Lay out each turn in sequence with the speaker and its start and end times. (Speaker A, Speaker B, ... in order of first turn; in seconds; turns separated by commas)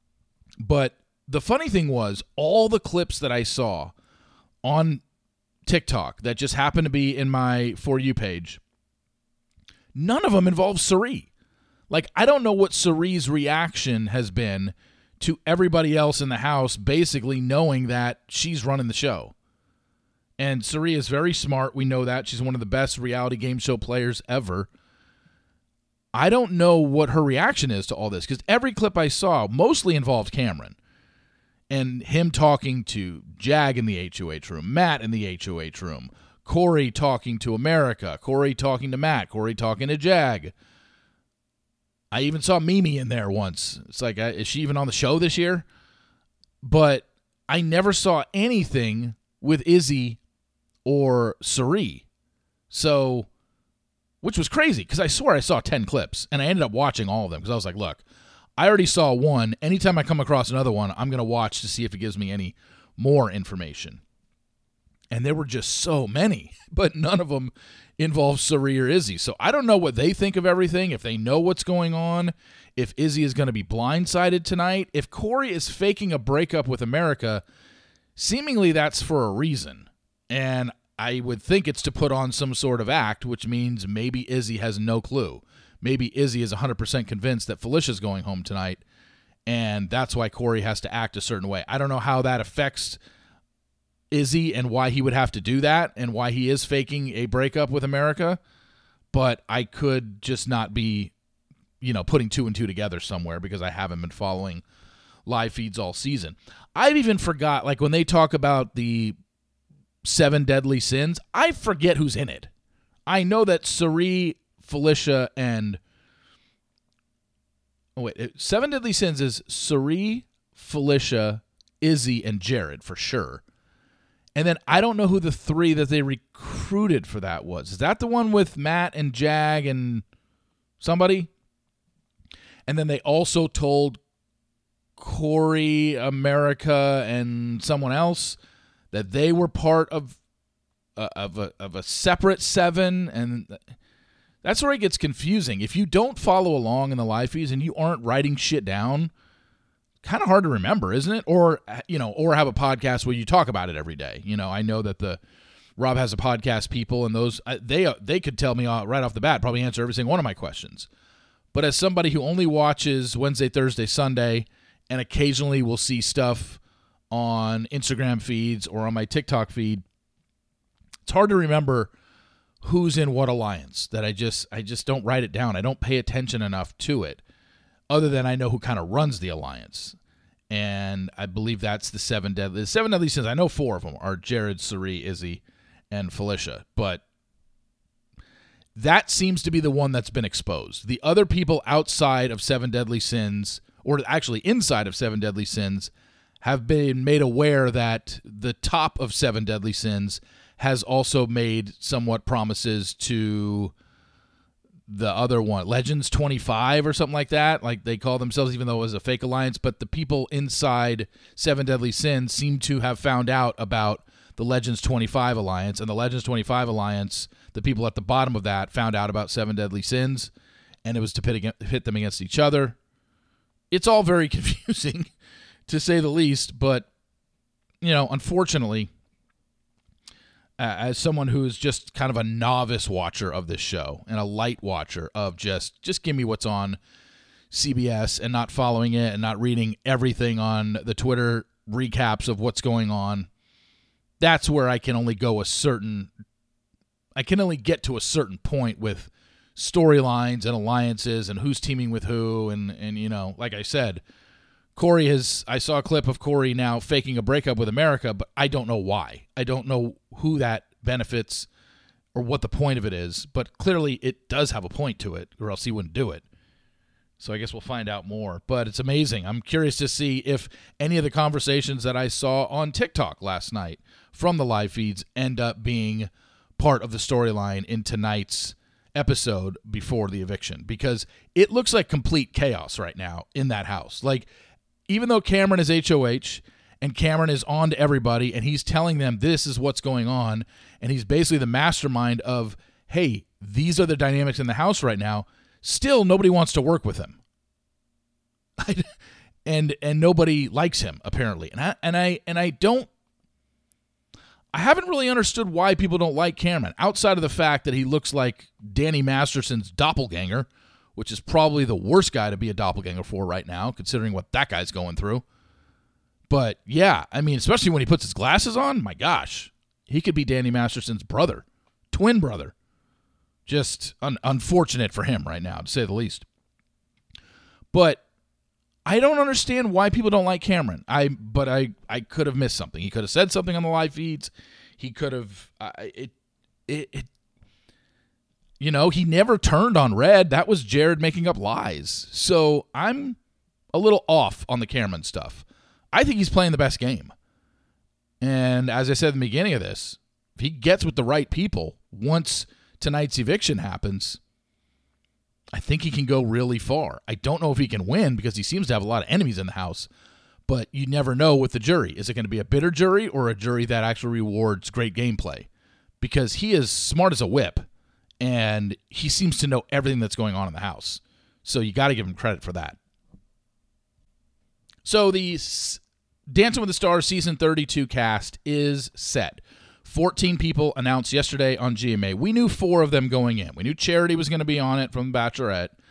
Speaker A: 0.6-3.9, Speaker A: 4.6-5.0, Speaker A: 5.7-8.6, Speaker A: 9.9-11.3, Speaker A: 11.9-19.3, Speaker A: 20.4-24.7, Speaker A: 26.1-30.8, Speaker A: 31.7-40.5, Speaker A: 42.1-45.7, Speaker A: 46.6-50.2, Speaker A: 50.8-52.0, Speaker A: 52.7-53.3, Speaker A: 54.2-58.0, Speaker A: 58.6-64.0, Speaker A: 65.1-77.4, Speaker A: 78.2-88.8, Speaker A: 89.5-93.0, Speaker A: 94.1-98.4, Speaker A: 99.1-101.1, Speaker A: 101.8-104.6, Speaker A: 105.2-109.1, Speaker A: 110.0-112.5, Speaker A: 113.1-115.8, Speaker A: 118.0-123.4, Speaker A: 124.3-130.0, Speaker A: 130.8-131.3, Speaker A: 132.7-134.0, Speaker A: 135.0-138.4, Speaker A: 138.9-140.2, Speaker A: 140.9-143.6, Speaker A: 144.4-149.1, Speaker A: 150.0-155.2, Speaker A: 155.8-160.9, Speaker A: 161.5-166.6, Speaker A: 167.1-169.8, Speaker A: 171.0-171.9, Speaker A: 172.6-177.2, Speaker A: 177.9-180.0, Speaker A: 180.5-187.0, Speaker A: 188.7-203.7, Speaker A: 204.9-220.3, Speaker A: 220.8-222.8, Speaker A: 223.7-225.1, Speaker A: 225.7-226.9, Speaker A: 227.8-228.9, Speaker A: 230.6-236.8, Speaker A: 237.5-243.3, Speaker A: 244.2-246.1, Speaker A: 247.2-254.0, Speaker A: 254.7-261.5, Speaker A: 262.1-266.2, Speaker A: 267.2-284.3, Speaker A: 284.9-297.2, Speaker A: 298.6-298.9, Speaker A: 299.4-302.9, Speaker A: 304.5-315.2, Speaker A: 316.3-322.5, Speaker A: 323.4-326.2, Speaker A: 327.7-328.0, Speaker A: 328.9-336.1, Speaker A: 336.7-337.1, Speaker A: 338.6-343.2, Speaker A: 343.7-347.1, Speaker A: 348.2-354.2, Speaker A: 355.5-359.9, Speaker A: 360.5-365.5, Speaker A: 366.0-367.6, Speaker A: 368.2-372.8, Speaker A: 374.8-385.8